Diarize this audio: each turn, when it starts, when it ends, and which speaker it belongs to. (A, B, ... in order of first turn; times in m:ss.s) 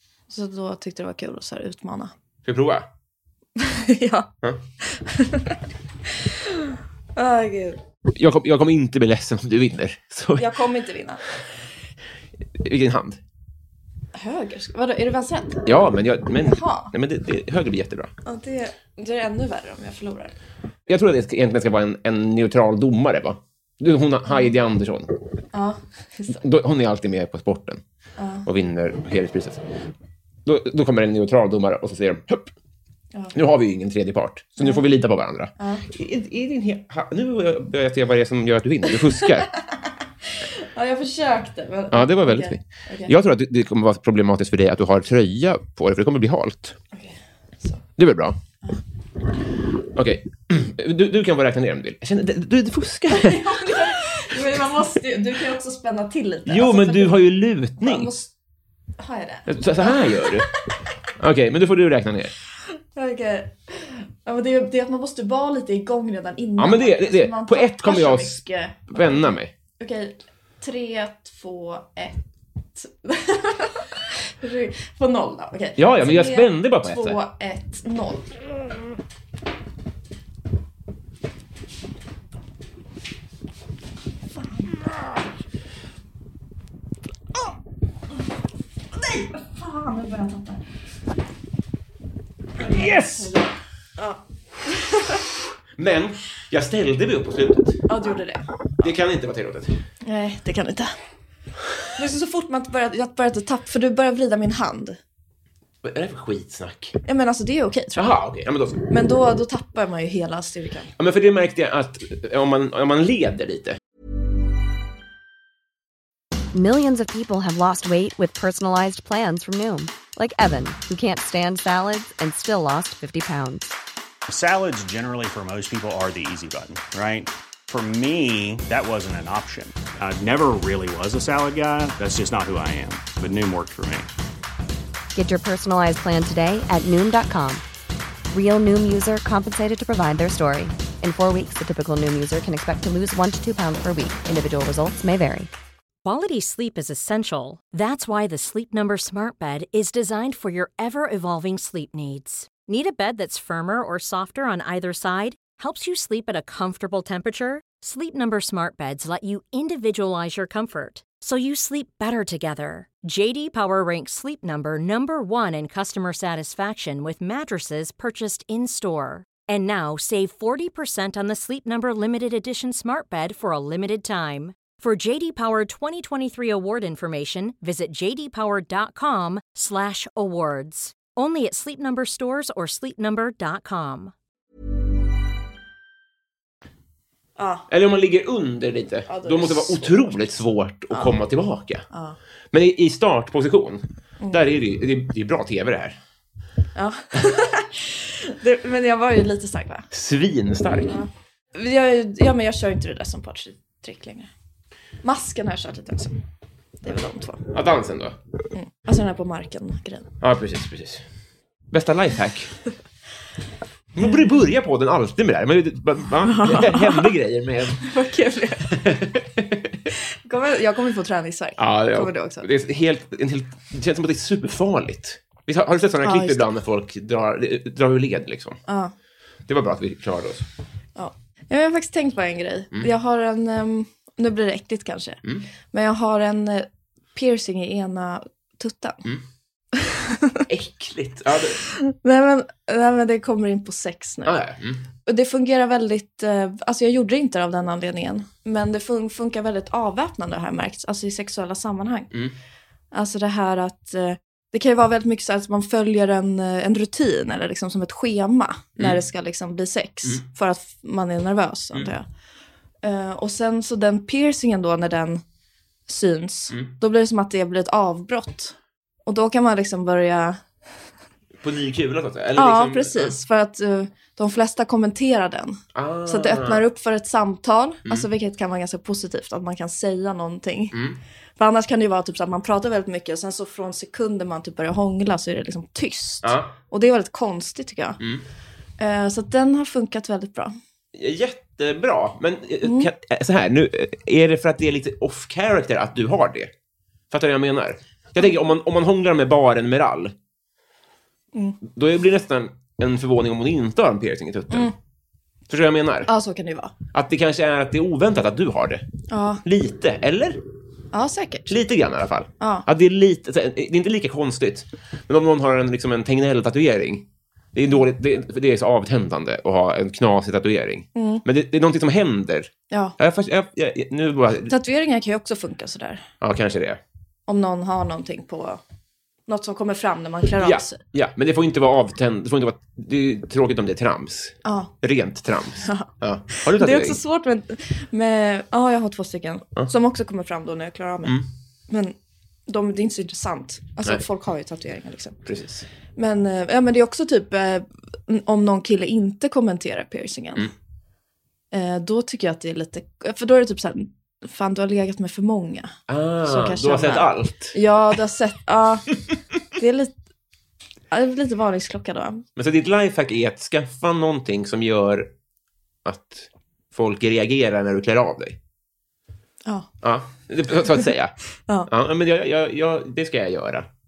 0:00.3-0:02.1 A
0:02.4-0:02.9 B
0:03.6-0:04.3 A
0:04.8-0:05.6 A
0:06.2-0:07.8 A
0:08.1-0:10.5 B
0:10.4-0:11.2 A
0:12.6-0:13.2 B
0:14.1-0:15.7 A
0:15.6-0:18.1 B
0:16.4-0:16.9 A
0:18.2-0:20.3 A
0:20.9-0:25.1 B
0:25.5-0:26.4 A
0:26.3-0:27.8 B
0:28.2-0:28.5 A
0:28.4-0:29.6 B
0:30.4-0:32.5 B
0:33.3-0:39.5 B
0:35.6-0:35.8 A
0:39.2-0:39.5 A
0:40.5-0:43.1 A
0:41.9-0:46.8 B
0:46.9-0:47.8 A
0:48.0-0:48.4 B
0:49.9-0:54.0 B
0:53.1-0:57.2 A
0:56.5-0:58.1 B
0:57.8-0:58.3 A
0:59.0-1:00.4 A
0:59.5-1:00.5 B
1:01.2-1:02.3 B
1:02.9-1:12.2 A
1:06.6-1:09.5 B
1:12.7-1:18.3 A
1:15.8-1:17.2 B
1:24.4-1:24.9 A
1:29.1-1:30.6 A
1:32.6-1:35.2 A
1:32.6-1:33.3 B
1:35.8-1:37.8 B
1:37.9-1:38.5 A
1:38.8-1:39.8 B
1:40.0-1:40.9 A
1:42.0-1:45.0 A
1:45.8-1:47.0 B
1:47.0-1:48.1 A
1:48.0-1:48.9 B
1:48.9-1:50.9 A
1:51.0-1:53.8 B
1:56.5-2:03.7 C
2:04.3-2:14.1 D
2:15.1-2:17.6 C
2:18.3-2:25.5 C
2:26.0-3:04.1 E
3:07.4-3:07.7 A
3:07.7-3:11.8 B
3:09.1-3:10.2 A
3:11.9-3:12.2 A
3:12.5-3:16.0 B
3:16.7-3:19.9 A
3:19.9-3:21.0 B
3:20.9-3:24.3 A
3:25.0-3:26.2 A
3:26.8-3:27.5 A
3:27.5-3:28.2 B
3:28.5-3:30.1 A
3:30.2-3:31.0 B
3:31.7-3:32.5 B
3:33.9-3:37.9 B
3:36.2-3:37.1 A
3:37.8-3:38.8 A
3:38.7-3:39.8 B
3:40.2-3:42.5 A
3:41.6-3:48.6 B
3:46.0-3:46.4 A
3:48.7-3:48.9 A
3:49.5-3:50.4 B
3:51.0-3:55.2 A
3:55.7-3:59.0 A
3:59.8-4:00.4 A
4:00.5-4:01.6 B
4:01.6-4:04.4 A
4:04.2-4:04.8 B
4:05.0-4:12.1 A
4:12.9-4:22.0 A
4:22.8-4:25.2 A
4:25.9-4:28.5 A
4:29.0-4:30.4 A
4:31.4-4:33.1 B
4:32.4-4:40.8 A
4:35.7-4:36.6 B
4:40.7-4:41.0 B
4:41.4-4:48.0 A
4:46.2-4:46.5 B
4:48.0-4:48.2 B
4:48.8-4:50.6 A
4:50.9-4:56.5 B
4:52.6-4:52.9 A
4:57.1-5:00.1 B
5:01.7-5:04.7 B
5:05.5-5:06.1 B
5:06.1-5:06.7 A
5:06.9-5:08.9 B
5:09.1-5:09.4 A
5:09.4-5:10.4 B
5:10.9-5:11.5 A
5:11.5-5:24.5 B
5:12.4-5:12.6 A
5:20.9-5:21.2 A
5:24.5-5:26.0 A
5:26.2-5:26.8 B
5:27.3-5:28.6 A
5:29.3-5:30.8 A
5:30.4-5:37.0 B
5:34.4-5:34.7 A
5:35.6-5:41.2 A
5:41.7-5:41.9 A
5:42.5-5:45.2 A
5:45.2-5:45.6 B
5:46.0-5:50.5 A
5:51.5-5:58.9 A
5:55.9-5:57.5 B
5:59.6-6:00.0 A
6:00.9-6:02.2 A
6:02.4-6:05.1 B
6:05.8-6:08.4 B
6:09.4-6:09.7 A
6:09.8-6:11.2 B
6:11.7-6:13.7 B